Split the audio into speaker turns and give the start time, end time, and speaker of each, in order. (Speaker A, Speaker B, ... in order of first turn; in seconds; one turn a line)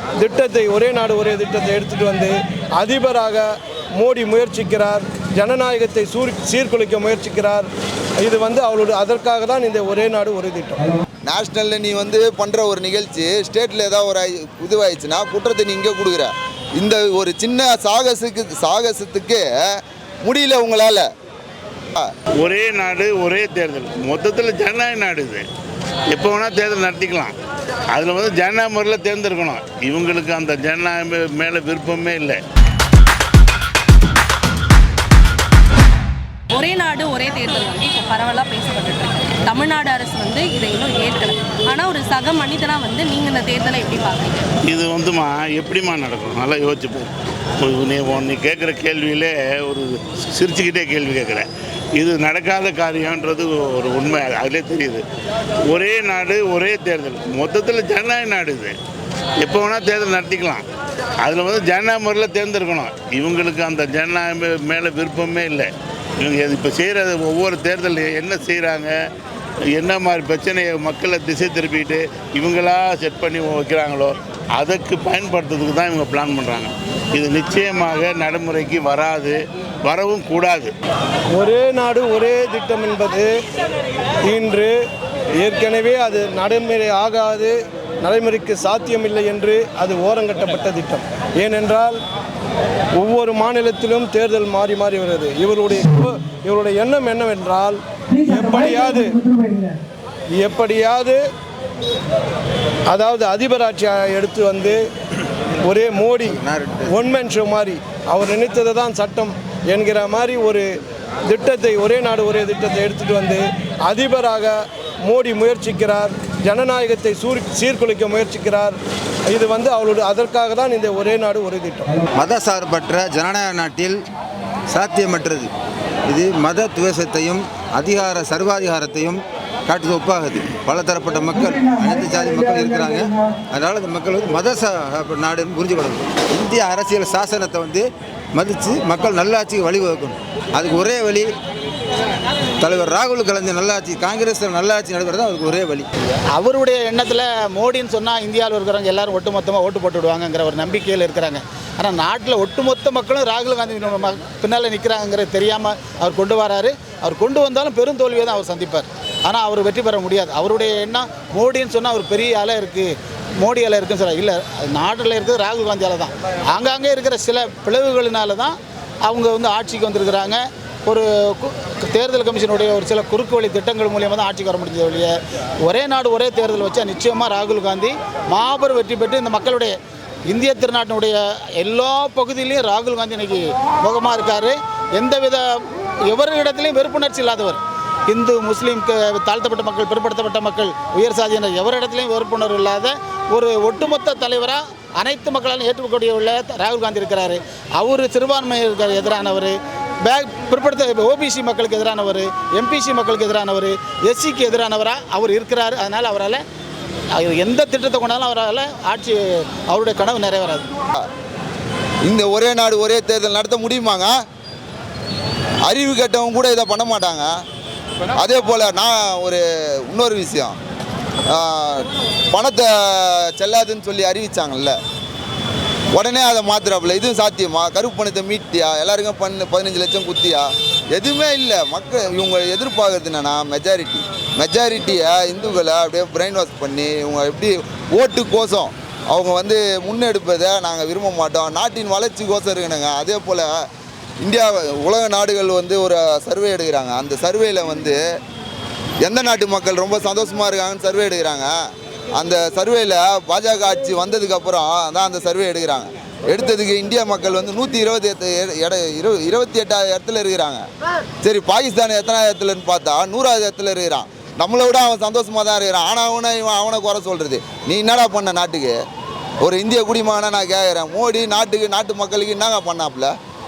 Speaker A: 0.2-7.7
Speaker A: 8.2-10.9
Speaker B: 11.2-19.5
Speaker B: 20.2-21.1
Speaker C: 22.4-25.4
Speaker C: 26.1-27.3
Speaker C: 27.9-32.4
Speaker D: 36.5-44.5
Speaker C: 44.7-55.0
Speaker C: 55.7-58.7
Speaker C: 59.4-60.6
Speaker C: 61.2-68.9
Speaker C: 69.7-80.7
Speaker A: 81.3-83.3
Speaker A: 84.2-84.7
Speaker A: 85.3-92.0
Speaker A: 93.0-99.4
Speaker A: 100.3-101.2
Speaker A: 102.9-104.8
Speaker A: 105.6-110.7
Speaker E: 106.2-107.0
Speaker A: 111.2-118.8
Speaker A: 119.3-121.9
Speaker E: 122.2-124.0
Speaker E: 124.7-125.5
Speaker E: 126.1-137.8
Speaker E: 138.3-141.3
Speaker E: 142.6-145.9
Speaker F: 146.3-175.1
Speaker F: 175.7-179.7
Speaker F: 180.3-185.6
Speaker F: 186.1-199.5
Speaker F: 200.1-206.4
Speaker F: 207.1-210.6
Speaker B: 212.1-214.1
Speaker B: 215.7-217.3
Speaker B: 218.2-220.6
Speaker B: 221.3-224.8
Speaker B: 225.9-243.6
Speaker B: 244.2-248.0
Speaker B: 249.0-251.5
Speaker B: 252.2-260.6
Speaker B: 261.2-268.8
Speaker B: 269.4-273.1